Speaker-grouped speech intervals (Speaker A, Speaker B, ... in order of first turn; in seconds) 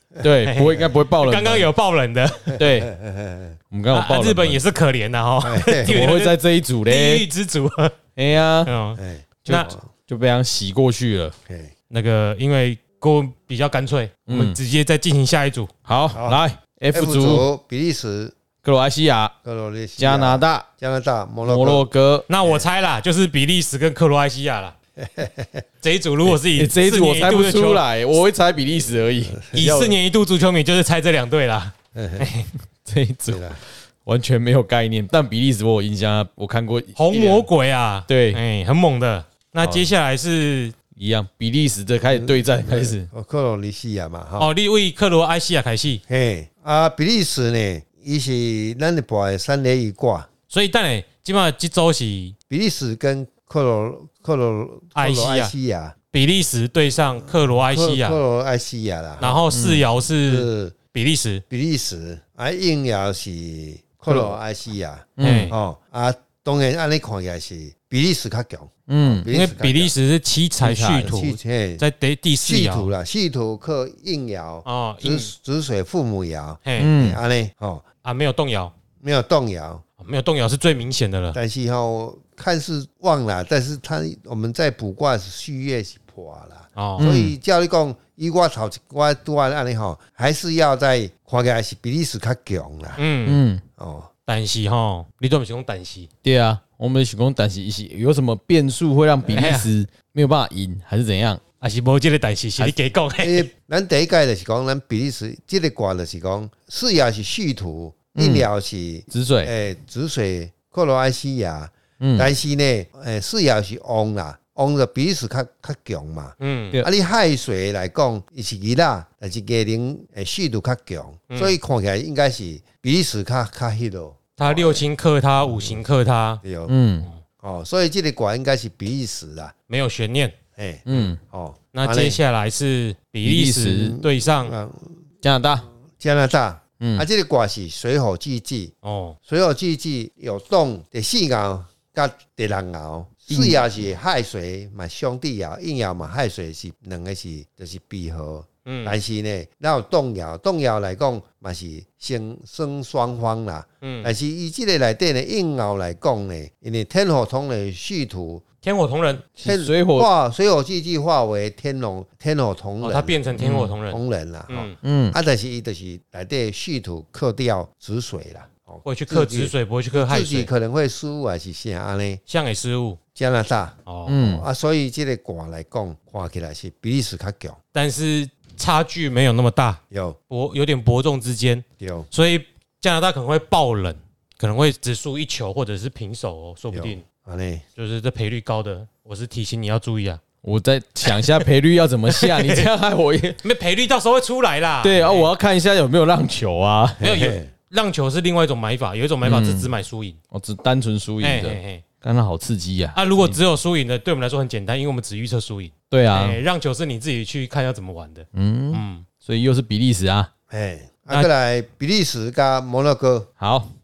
Speaker A: 0.2-1.7, 2.6-2.9, 3.7-4.6, 5.8-7.2, 8.2-8.7, 9.4-11.3, 14.3-14.6, 15.9-17.5, 18.6-19.3, 20.0-20.6, 21.4-22.3, 26.3-30.0, 32.9-37.5, 38.1-38.4, 39.6-39.9, 41.0-43.1, 59.5-59.8, 64.1-64.4, 65.2-65.5, 68.9-69.3, 70.6-71.2, 76.8-77.2, 87.0-87.4, 93.2-93.6, 96.2-101.4, 108.1-108.5, 109.1-109.5, 112.0-112.3, 126.7-127.1, 130.9-131.2, 133.2-133.9, 135.2-135.7, 136.8-137.1, 143.3-143.6, 159.4-160.1, 163.4-163.7, 164.8-165.2, 174.1-174.4, 190.4-193.4, 194.8-197.1, 199.2-199.7, 200.3-203.3, 205.9-206.4, 208.3-210.3, 213.4-213.7
Speaker B: 0.2-2.6, 3.9-8.0, 8.6-9.7, 11.9-15.7, 22.3-24.7, 25.8-27.8, 29.5-32.5, 37.0-40.7, 44.4-46.0, 50.5-52.3, 54.9-55.5, 56.1-58.2, 59.2-61.4, 65.2-65.5, 69.3-72.9, 74.6-75.3, 76.6-76.9, 78.0-78.7, 80.0-81.4, 86.8-87.1, 93.0-93.4, 94.2-96.1, 99.3-99.7, 101.6-103.5, 116.4-116.8, 121.3-121.5, 124.4-126.4, 129.7-130.3, 130.9-131.1, 131.7-134.5, 138.8-139.2, 148.7-149.0, 153.8-154.1, 158.6-159.2, 162.8-164.8, 168.8-170.5, 172.2-173.0, 173.8-174.2, 177.7-187.0, 187.8-190.2, 191.0-191.3, 192.1-192.7, 193.4-195.3, 197.0-200.2, 201.2-201.8, 202.9-209.0
Speaker C: 2.6-3.6, 5.4-6.0, 8.9-9.9, 11.4-11.7, 16.1-18.4, 19.4-21.9, 25.0-25.6, 29.2-29.7, 31.9-32.3, 33.3-33.6, 42.1-44.5, 46.1-50.3, 52.5-55.9, 57.6-59.4, 60.2-60.8, 61.5-69.9, 71.0-71.8, 72.4-77.8, 79.0-79.8, 81.3-93.1, 93.8-94.1, 103.2-124.8, 126.4-126.7, 127.4-129.5, 130.6-132.2, 133.8-135.0, 135.9-138.7, 139.2-158.4, 159.4-163.2, 163.8-172.2, 173.1-177.6, 179.9-180.2, 181.8-182.1, 186.7-187.6, 197.0-197.5, 210.5-213.3